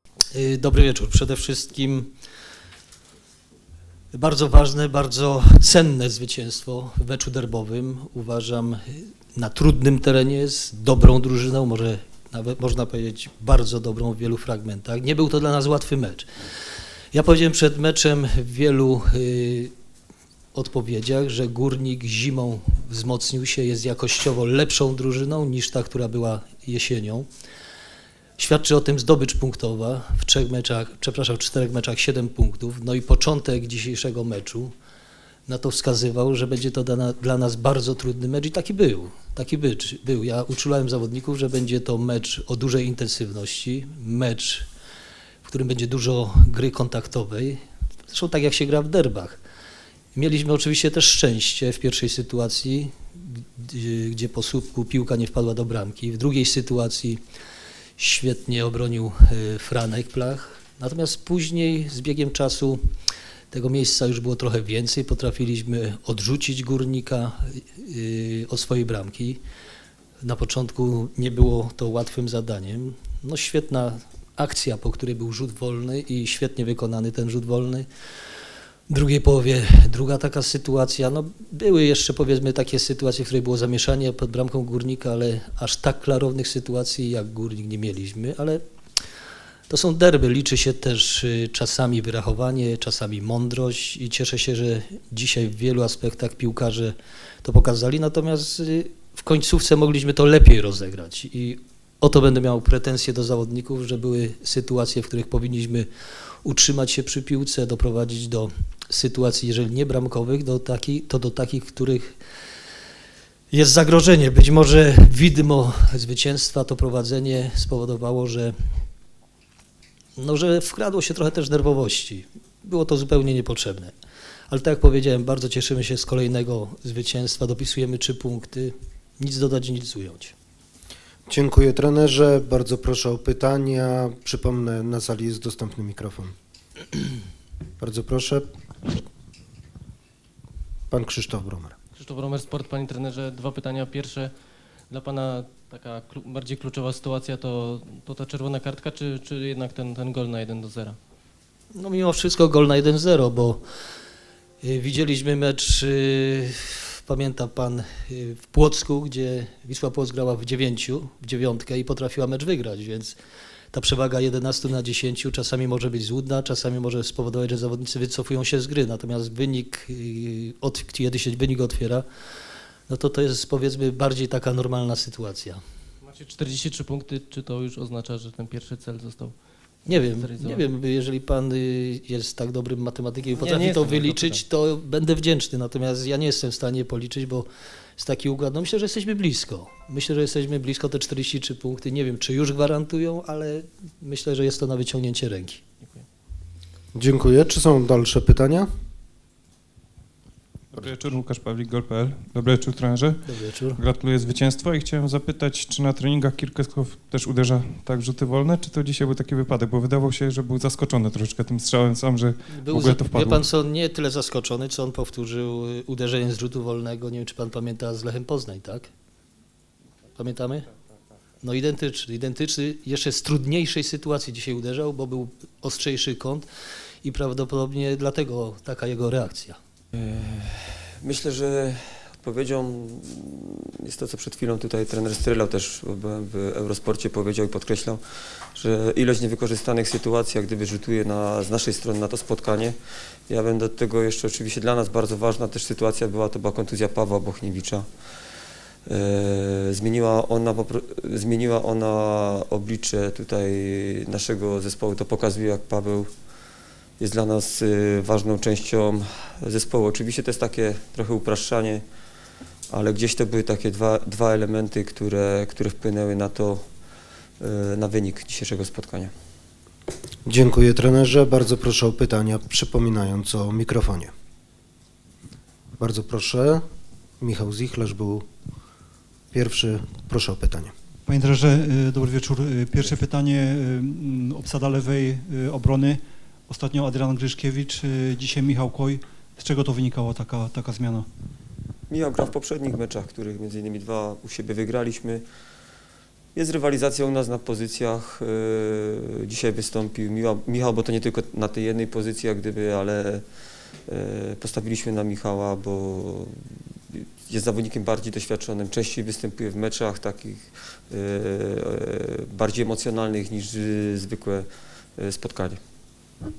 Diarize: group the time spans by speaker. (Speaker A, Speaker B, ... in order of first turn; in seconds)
Speaker A: 0.3-2.1, 4.1-16.3, 17.1-19.7, 20.5-27.3, 28.4-34.7, 35.5-44.7, 45.4-49.4, 50.1-57.2, 58.0-62.8, 63.5-69.4, 70.2-77.9, 78.9-88.6, 89.7-105.9, 106.4-112.2, 113.5-118.5, 120.2-123.9, 124.5-130.3, 151.7-153.6, 154.6-163.2, 163.7-172.0, 172.9-175.6, 179.8-195.6, 203.2-203.8, 212.5-218.9, 220.1-220.7, 221.4-226.5, 227.0-229.6
Speaker B: 131.3-136.3, 137.8-139.0, 140.9-141.8, 196.9-198.7, 270.2-274.1, 275.8-276.6, 277.2-278.2, 279.3-280.7
Speaker C: 142.0-144.3, 144.9-151.0, 176.0-180.6, 183.4-184.4, 195.8-196.1
Speaker D: 200.7-213.5
Speaker E: 230.0-242.8, 243.3-247.9, 248.9-256.1, 257.0-261.8, 262.7-266.6, 267.4-269.1, 291.9-295.2, 296.3-303.2, 303.9-315.6
Speaker F: 281.1-291.1